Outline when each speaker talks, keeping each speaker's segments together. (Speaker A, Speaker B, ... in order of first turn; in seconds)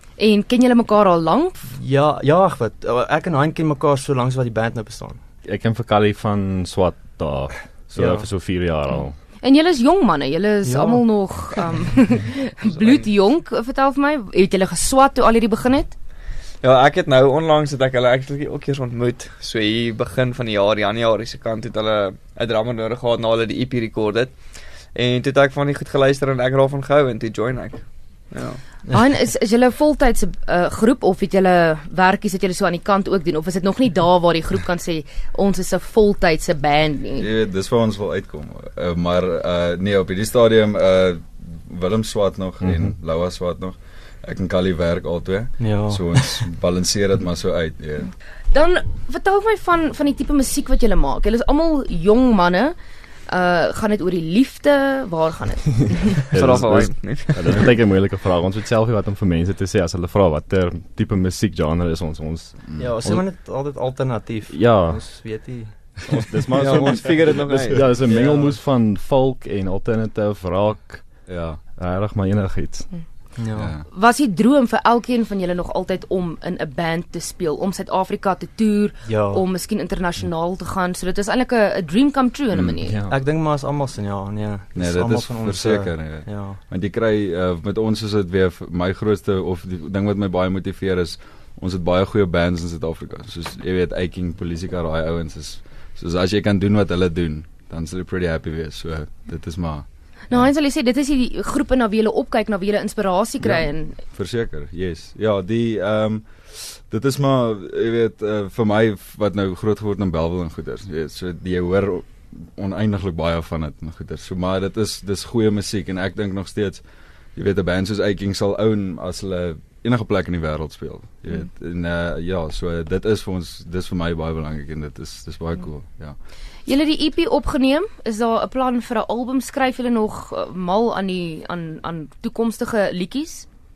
Speaker A: 0.2-1.8, 8.8-15.9, 28.9-37.3, 48.5-52.8, 53.3-56.3, 72.9-73.3, 73.9-83.0, 100.2-104.1, 126.6-133.5
Speaker B: 1.7-5.2, 7.9-8.6, 10.6-11.5, 45.6-46.4, 62.8-66.2, 66.7-68.6, 73.4-73.7, 79.0-79.4, 83.1-86.6
Speaker C: 5.4-9.2, 42.6-42.9, 56.3-63.3, 64.5-73.3, 82.8-83.2
Speaker D: 12.6-13.1, 16.6-28.8, 56.3-57.6, 66.5-68.1
Speaker E: 37.2-48.1, 62.7-63.0, 71.2-71.6, 73.5-73.9, 82.5-82.9, 84.7-100.5, 103.4-126.3